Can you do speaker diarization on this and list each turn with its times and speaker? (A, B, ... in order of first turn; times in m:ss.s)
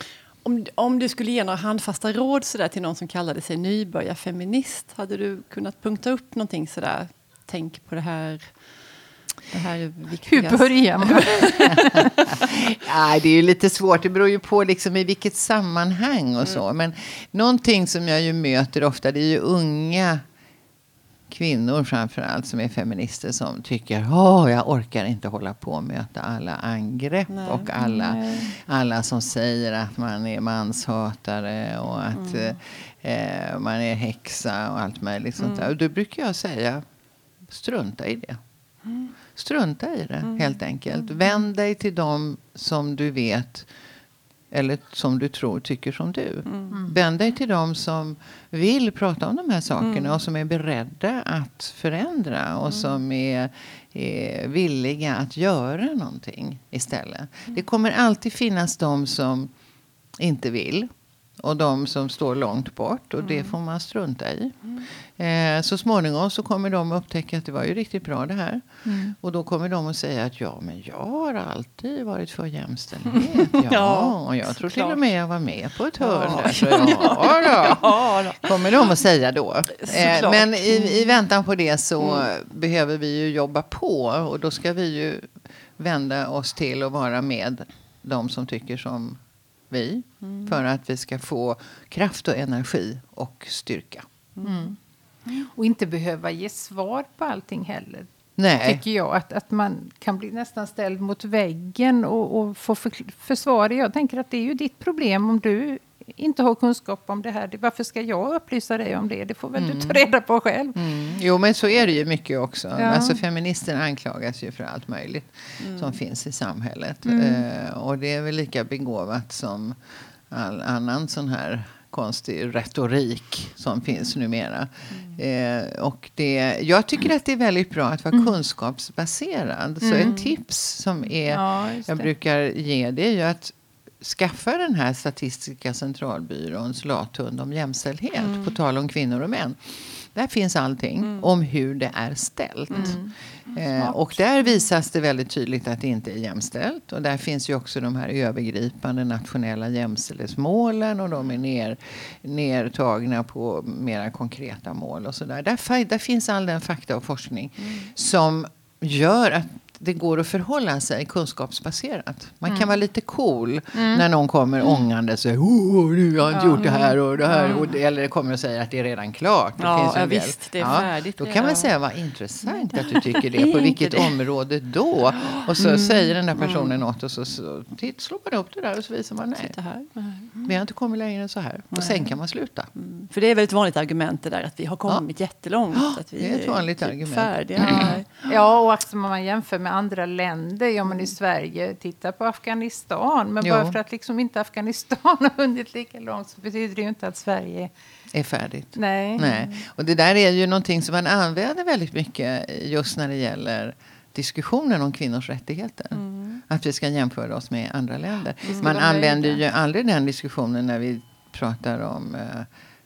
0:00.4-0:08.5 A
0:09.5-0:11.8 A
0:10.3-0:12.2 B
0:12.3-0:20.2 C
0:21.3-0:36.8 C
0:27.3-0:27.7 A
0:27.8-0:28.5 B
0:32.1-0:32.5 A
0:35.4-0:35.7 A
0:37.5-0:38.4 C
0:39.4-0:43.7 C
0:40.2-0:40.5 A
0:44.5-0:59.5 C
0:46.5-0:46.7 A
0:46.7-0:47.0 B
0:49.8-0:50.2 A
1:00.2-1:00.9 C
1:01.4-1:04.6 C
1:03.2-1:03.5 A
1:05.2-1:29.2 C
1:08.8-1:09.2 B
1:13.4-1:15.0 A
1:16.0-1:18.7 A
1:19.7-1:21.2 A
1:29.7-1:34.0 C
1:34.4-1:34.8 B
1:35.3-1:38.1 B
1:38.4-1:38.8 C
1:38.6-1:50.8 B
1:49.6-1:50.0 C
1:50.8-1:59.8 C
1:52.8-1:53.2 B
1:55.6-1:56.0 A
1:57.0-1:57.4 B
2:00.3-2:23.0 C
2:09.8-2:10.3 B
2:11.3-2:12.1 B
2:18.2-2:18.5 A
2:22.7-2:23.1 B
2:23.5-2:59.5 C
2:37.6-2:37.9 A
2:42.5-2:42.7 B
2:43.7-2:44.0 B
2:46.3-2:47.7 B
2:49.6-2:51.7 A
2:52.5-2:54.2 A
2:55.6-2:56.8 A
2:59.4-2:59.9 A
3:00.0-3:00.3 B
3:00.4-3:02.7 C
3:01.7-3:02.0 A
3:02.8-3:08.1 A
3:05.8-3:08.0 C
3:07.7-3:17.7 B
3:13.4-3:13.8 C
3:18.1-3:32.5 C
3:18.8-3:19.3 B
3:19.2-3:19.5 A
3:26.0-3:26.4 A
3:28.6-3:29.4 B